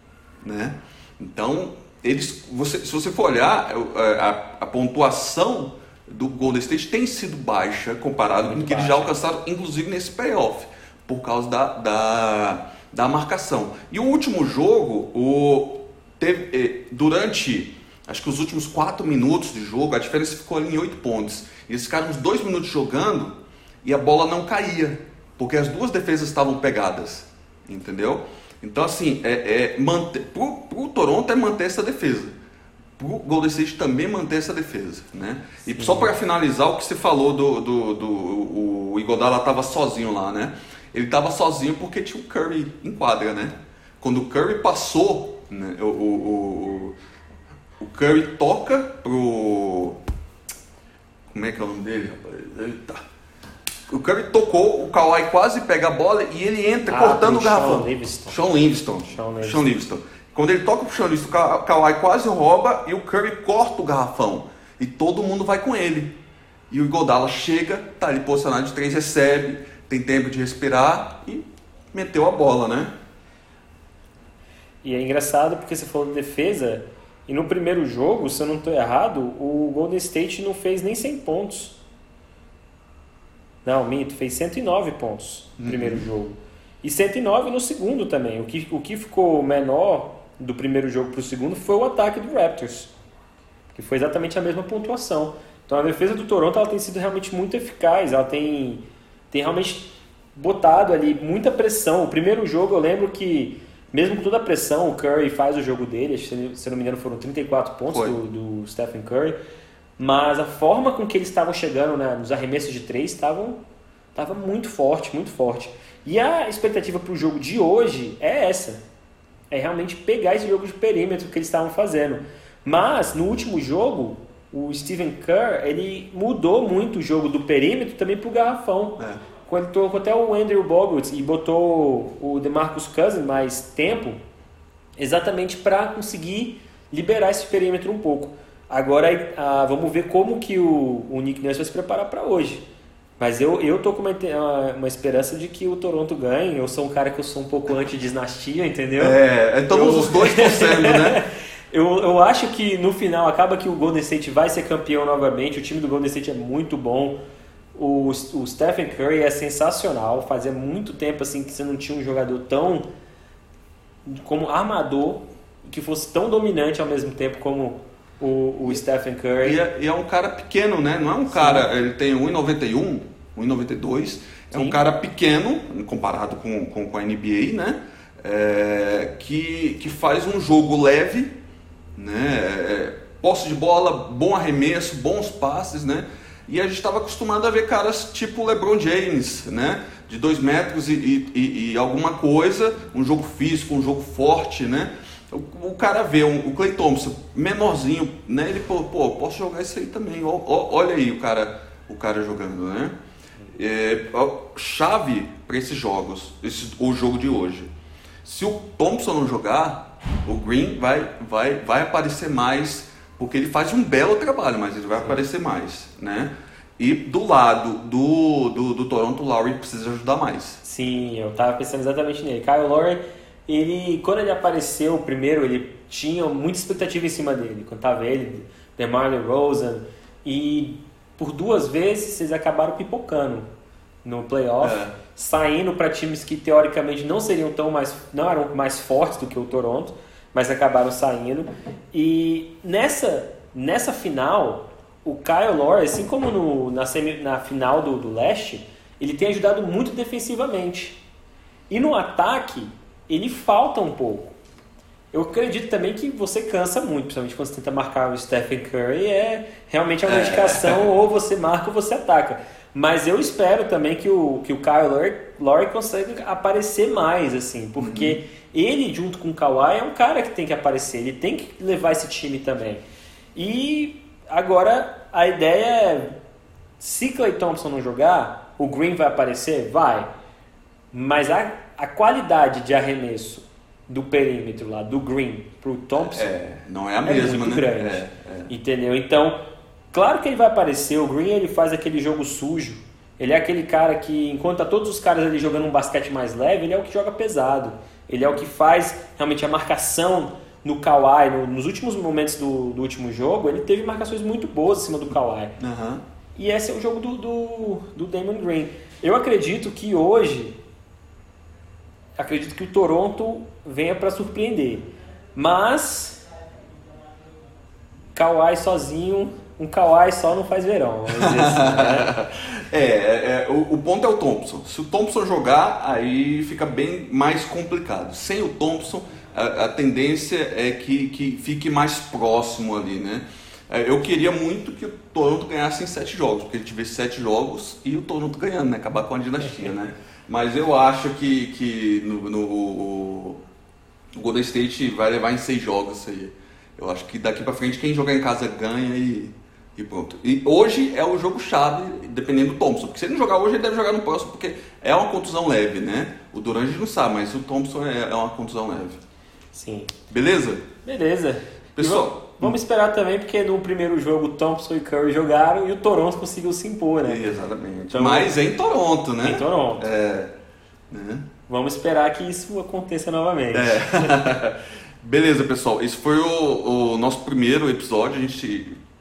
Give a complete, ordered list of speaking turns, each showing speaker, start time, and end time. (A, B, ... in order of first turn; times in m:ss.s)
0:00.4-0:23.3 A
0:08.4-0:09.2 B
0:23.8-0:32.3 A
0:33.0-0:46.9 A
0:35.7-0:36.2 B
0:47.8-0:50.0 A
0:51.3-0:53.0 A
0:53.9-1:06.2 A
0:56.9-0:58.4 B
0:59.1-0:59.7 B
1:06.7-1:12.9 A
1:14.8-1:21.8 B
1:23.6-1:32.9 B
1:25.6-1:26.0 A
1:33.7-1:49.4 B
1:47.9-1:48.2 A
1:50.0-1:53.6 B
1:54.2-1:58.8 B
1:59.5-2:14.2 B
2:15.0-2:22.6 B
2:23.2-2:29.2 B
2:29.0-2:31.2 A
2:29.7-2:37.2 B
2:37.7-2:42.9 B
2:44.1-2:49.6 B
2:49.4-3:01.3 A
2:51.3-2:51.7 B
2:54.5-2:54.8 B
3:02.0-3:22.9 A
3:23.5-3:27.7 A
3:28.2-3:40.6 A
3:40.6-3:53.5 B
3:54.0-4:11.0 B
3:54.6-3:55.0 A
4:11.7-4:14.3 B
4:15.1-4:32.8 B
4:20.1-4:20.9 A
4:27.8-4:28.2 A
4:33.4-4:36.2 B
4:36.8-4:40.1 B
4:40.9-4:46.3 B
4:46.0-4:48.5 A
4:47.0-4:49.4 B
4:49.9-5:05.6 B
5:05.6-5:06.0 A
5:06.4-5:10.6 B
5:12.2-5:16.2 B
5:18.2-5:22.1 B
5:21.2-5:43.4 A
5:44.2-5:59.0 A
5:59.5-5:59.9 B
6:00.1-6:00.7 A
6:00.8-6:08.4 B
6:01.8-6:02.6 A
6:07.1-6:10.3 A
6:09.2-6:09.9 B
6:10.9-6:11.3 A
6:11.5-6:14.2 B
6:13.5-6:18.8 A